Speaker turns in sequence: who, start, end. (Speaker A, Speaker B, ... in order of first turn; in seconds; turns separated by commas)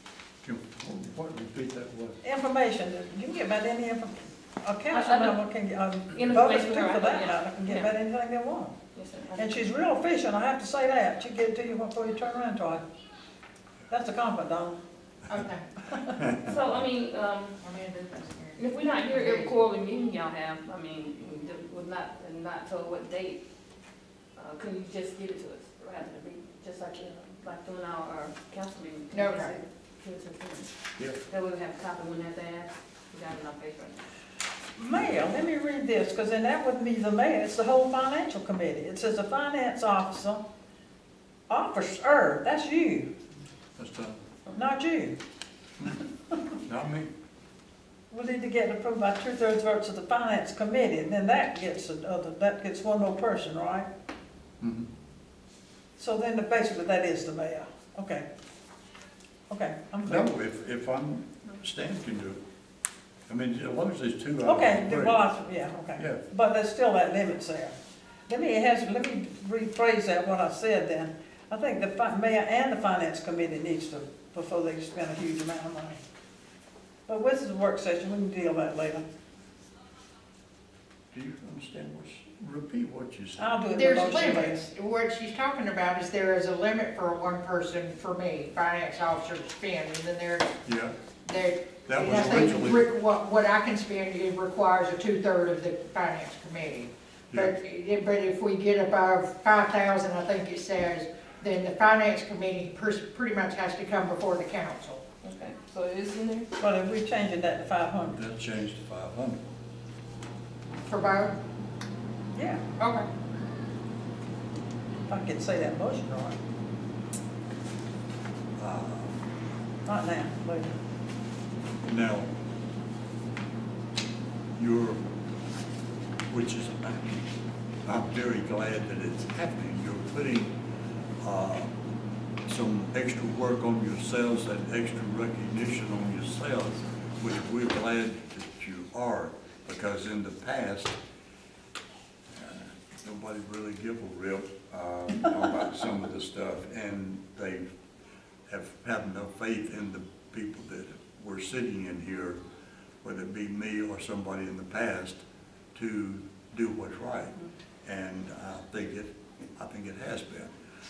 Speaker A: 0.4-2.2, Speaker B: 2.2-8.8, Speaker C: 4.9-5.4, Speaker C: 6.1-7.9, Speaker C: 8.9-9.7, Speaker B: 9.4-12.8, Speaker B: 13.9-14.8, Speaker D: 15.3-15.7, Speaker B: 15.9-16.3, Speaker C: 16.4-17.6, Speaker D: 17.6-19.5, Speaker C: 18.6-23.4, Speaker C: 24.4-34.1, Speaker D: 29.1-29.6, Speaker B: 34.8-40.4, Speaker B: 41.5-43.1, Speaker A: 43.8-44.2, Speaker B: 44.5-45.2, Speaker A: 46.6-47.1, Speaker B: 48.1-53.9, Speaker A: 54.6-54.9, Speaker B: 56.0-58.3, Speaker B: 59.5-60.3, Speaker A: 60.0-62.4, Speaker A: 63.3-65.2, Speaker B: 64.4-67.7, Speaker A: 66.0-66.2, Speaker B: 68.3-76.0, Speaker B: 77.1-79.0, Speaker A: 81.1-83.6, Speaker B: 83.4-84.6, Speaker D: 83.8-90.5, Speaker A: 90.7-90.9, Speaker D: 91.2-105.0, Speaker A: 91.8-92.9, Speaker C: 105.2-106.5, Speaker B: 106.6-108.2, Speaker A: 108.1-109.4, Speaker D: 110.8-111.4, Speaker B: 112.3-112.6, Speaker D: 112.8-113.1, Speaker B: 115.1-116.4, Speaker A: 118.6-119.2, Speaker B: 119.9-120.8, Speaker A: 121.8-122.3, Speaker A: 124.5-125.0, Speaker A: 126.3-127.3, Speaker A: 127.8-130.6, Speaker A: 131.2-131.8, Speaker A: 132.5-141.0, Speaker A: 142.3-147.7, Speaker A: 148.5-152.4, Speaker A: 153.0-155.2, Speaker A: 155.8-160.5